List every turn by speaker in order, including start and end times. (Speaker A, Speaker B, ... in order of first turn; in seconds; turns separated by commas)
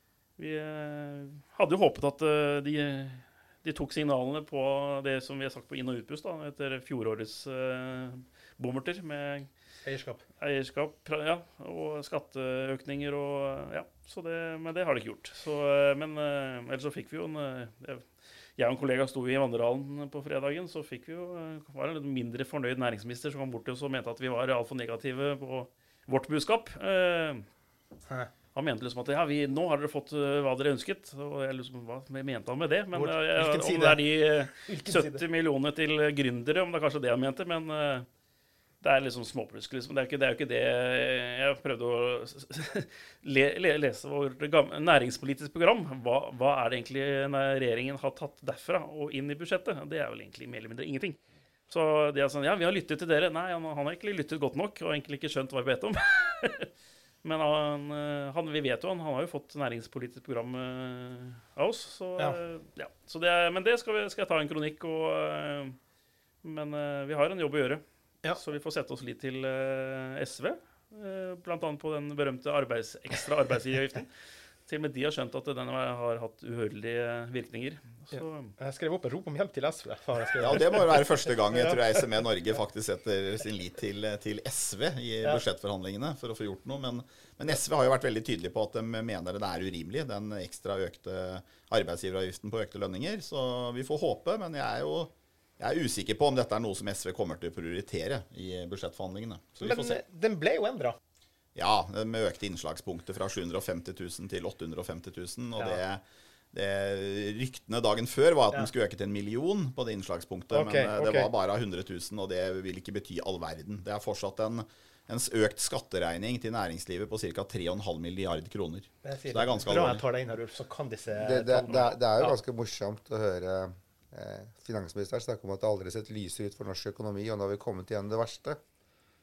Speaker A: 0.4-9.5, Speaker B: 9.8-10.2, Speaker A: 10.4-27.5, Speaker A: 28.5-38.1, Speaker B: 32.9-35.2, Speaker A: 38.8-51.2, Speaker A: 51.7-56.7, Speaker A: 57.2-65.8, Speaker A: 66.4-67.8, Speaker A: 68.3-74.1, Speaker A: 74.7-78.5, Speaker B: 78.1-81.8, Speaker C: 80.4-100.0, Speaker B: 99.6-101.0, Speaker C: 101.5-106.0, Speaker C: 106.5-120.0, Speaker B: 110.5-111.3, Speaker B: 119.0-122.4, Speaker D: 121.2-128.6